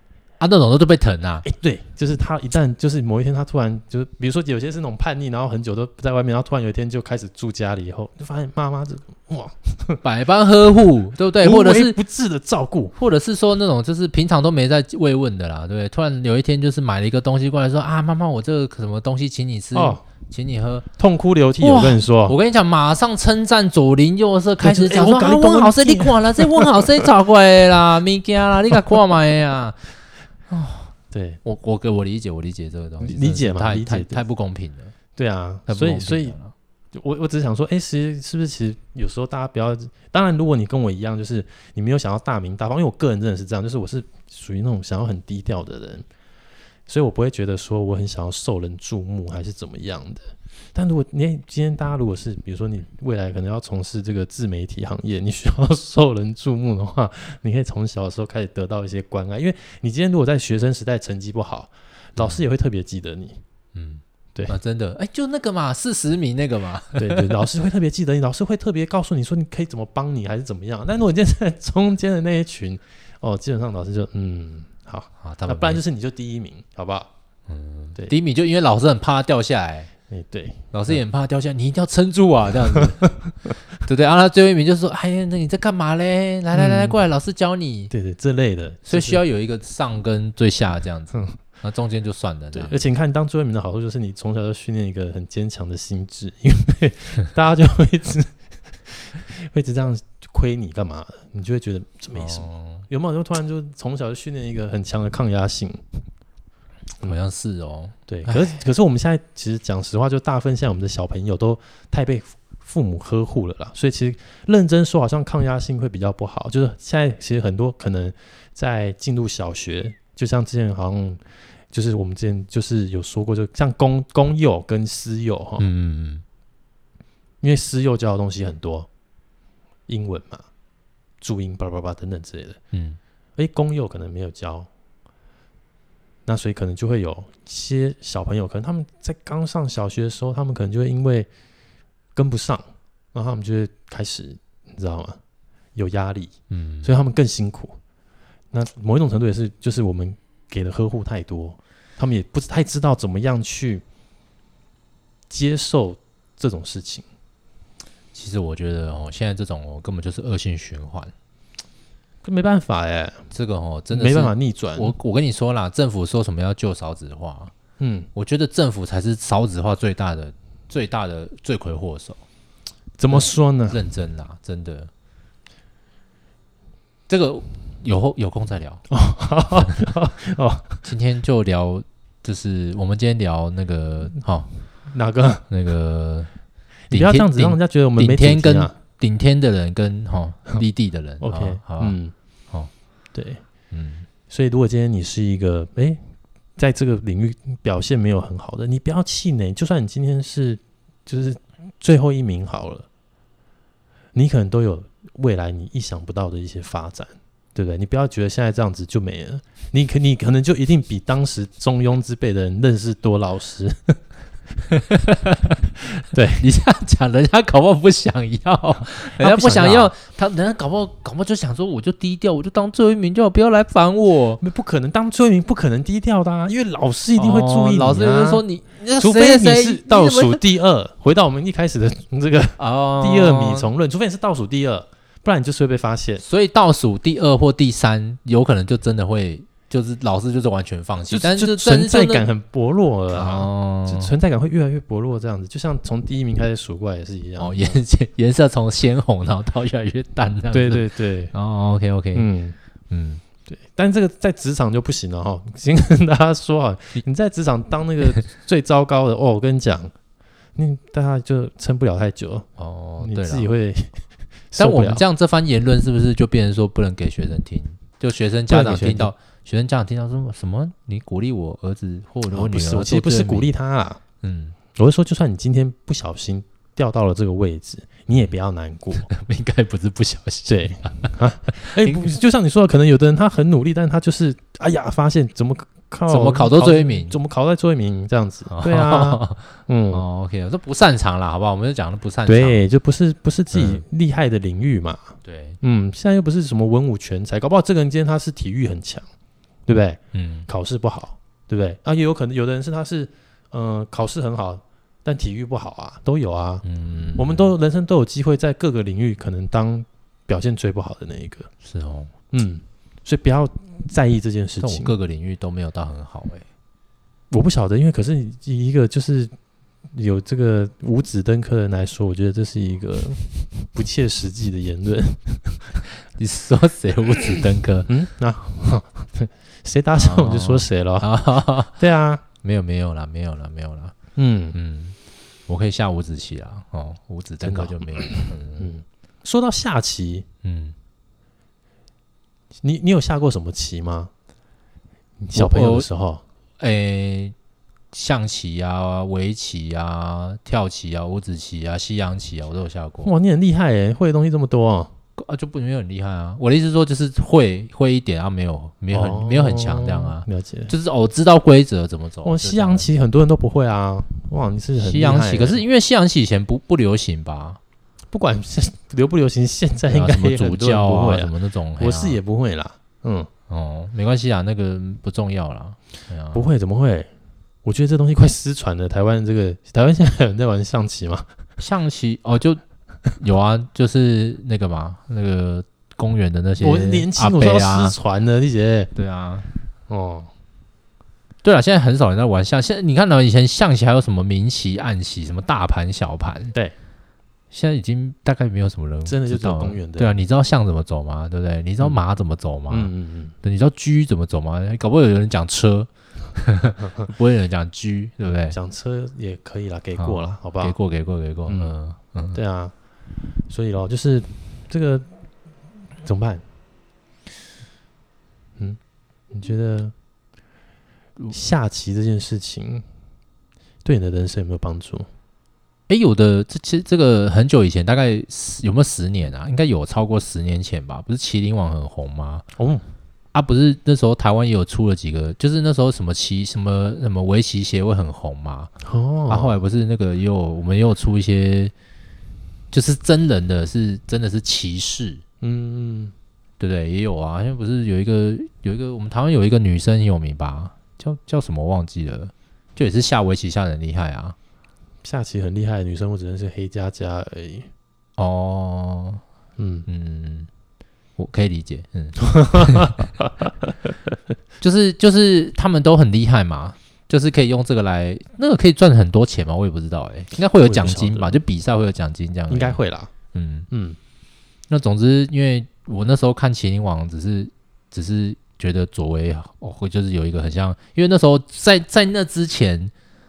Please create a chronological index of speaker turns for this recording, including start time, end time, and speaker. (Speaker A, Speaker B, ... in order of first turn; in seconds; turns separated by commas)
Speaker A: 0.4-1.4, Speaker B: 1.4-10.0, Speaker A: 10.0-12.0, Speaker B: 11.4-12.9, Speaker A: 13.0-20.9, Speaker B: 19.7-20.0, Speaker B: 21.0-22.4, Speaker A: 21.6-29.9, Speaker B: 24.6-27.1, Speaker A: 30.5-30.9, Speaker B: 31.1-31.4, Speaker A: 31.4-34.9, Speaker B: 33.0-34.2, Speaker B: 35.2-36.4, Speaker A: 35.7-36.5, Speaker B: 36.9-46.0, Speaker B: 46.9-50.2, Speaker B: 50.8-63.4, Speaker A: 63.7-67.3, Speaker B: 67.0-77.1, Speaker A: 75.2-75.8, Speaker A: 77.5-79.9, Speaker B: 80.1-81.0, Speaker A: 80.7-83.0, Speaker B: 82.7-83.5, Speaker A: 83.8-87.9, Speaker B: 86.5-87.0, Speaker B: 87.9-89.2, Speaker A: 88.9-92.8, Speaker B: 92.5-105.8, Speaker A: 102.2-102.9, Speaker A: 107.0-108.5, Speaker B: 108.1-121.2, Speaker B: 121.7-125.7, Speaker A: 125.6-126.2, Speaker B: 127.4-128.9, Speaker B: 129.9-130.5, Speaker B: 131.2-132.6, Speaker A: 132.7-133.0, Speaker B: 133.4-134.7, Speaker B: 136.3-141.3, Speaker B: 142.2-145.2, Speaker B: 145.8-147.8, Speaker A: 146.5-146.9, Speaker B: 148.5-153.8, Speaker B: 155.3-157.0, Speaker A: 158.1-161.1, Speaker B: 162.2-163.2, Speaker A: 163.3-167.5, Speaker B: 163.9-164.9, Speaker B: 167.8-168.1, Speaker A: 168.2-172.2, Speaker B: 173.0-173.8, Speaker A: 173.1-174.9, Speaker A: 177.1-178.8, Speaker B: 178.9-180.8, Speaker A: 180.8-184.5, Speaker B: 184.9-185.4, Speaker A: 185.5-186.3, Speaker B: 186.9-188.7, Speaker A: 186.9-192.0, Speaker B: 191.2-192.1, Speaker B: 193.1-193.4, Speaker A: 193.7-194.1, Speaker B: 194.3-196.0, Speaker B: 196.6-202.9, Speaker B: 204.2-214.0, Speaker A: 214.7-215.6, Speaker B: 215.9-216.4, Speaker A: 216.4-224.4, Speaker B: 219.1-219.9, Speaker B: 224.4-228.4, Speaker A: 227.2-230.4, Speaker B: 229.0-236.2, Speaker A: 232.6-233.7, Speaker A: 236.2-242.3, Speaker B: 241.1-247.8, Speaker A: 243.1-244.1, Speaker A: 247.4-252.3, Speaker B: 250.5-251.3, Speaker B: 252.1-252.6, Speaker A: 252.9-253.2, Speaker B: 253.5-259.9, Speaker B: 260.6-262.5, Speaker A: 262.6-263.5, Speaker B: 263.0-264.0, Speaker B: 264.5-265.0, Speaker A: 264.6-273.5, Speaker B: 268.5-269.1, Speaker B: 272.3-274.0, Speaker A: 274.2-274.6, Speaker B: 274.8-279.1, Speaker A: 279.0-282.1, Speaker B: 280.5-290.1, Speaker A: 286.1-287.2, Speaker A: 288.5-292.6, Speaker B: 292.3-299.1, Speaker A: 293.5-293.8, Speaker A: 295.2-295.6, Speaker B: 299.7-306.6, Speaker A: 300.1-300.5, Speaker A: 306.6-307.5, Speaker B: 307.2-311.5, Speaker A: 311.6-312.1, Speaker B: 312.3-314.9, Speaker A: 314.6-316.5, Speaker B: 317.3-319.3, Speaker B: 319.9-325.8, Speaker A: 326.1-327.9, Speaker B: 327.9-331.1, Speaker A: 330.0-331.8, Speaker B: 331.8-332.2, Speaker A: 332.4-333.9, Speaker B: 334.2-334.6, Speaker A: 334.5-335.0, Speaker A: 335.5-338.7, Speaker B: 337.4-340.3, Speaker A: 340.4-340.8, Speaker B: 342.6-344.1, Speaker B: 345.2-346.2, Speaker A: 345.3-345.9, Speaker A: 346.6-347.4, Speaker A: 347.9-353.1, Speaker B: 353.0-354.9, Speaker A: 355.2-362.9, Speaker B: 358.9-360.7, Speaker B: 362.2-365.6, Speaker A: 364.8-367.6, Speaker B: 368.1-373.3, Speaker A: 369.9-372.2, Speaker A: 373.5-376.4, Speaker B: 376.3-377.1, Speaker B: 377.6-381.3, Speaker A: 381.6-382.6, Speaker A: 383.2-388.0, Speaker B: 386.6-388.9, Speaker A: 388.9-389.5, Speaker B: 389.9-390.3, Speaker A: 391.4-396.5, Speaker A: 397.5-402.9, Speaker B: 399.1-400.1, Speaker B: 402.7-403.4, Speaker A: 403.4-408.6, Speaker B: 408.5-410.8, Speaker A: 410.0-412.4, Speaker B: 411.5-411.7, Speaker B: 412.3-412.7, Speaker B: 413.5-415.1, Speaker B: 416.0-416.4, Speaker B: 419.3-419.9, Speaker B: 421.3-422.9, Speaker B: 423.9-425.1, Speaker A: 425.9-432.4, Speaker B: 432.6-432.8, Speaker A: 433.3-438.7, Speaker B: 438.8-439.6, Speaker A: 439.3-441.7, Speaker A: 442.7-445.2, Speaker B: 445.4-446.1, Speaker A: 446.6-454.4, Speaker B: 455.0-457.7, Speaker A: 458.2-459.2, Speaker B: 459.6-459.9, Speaker A: 459.9-460.5, Speaker A: 461.2-463.1, Speaker B: 462.2-463.3, Speaker A: 464.6-472.8, Speaker B: 470.6-471.4, Speaker B: 472.5-473.1, Speaker A: 473.3-473.7, Speaker B: 473.7-474.0, Speaker A: 474.7-482.9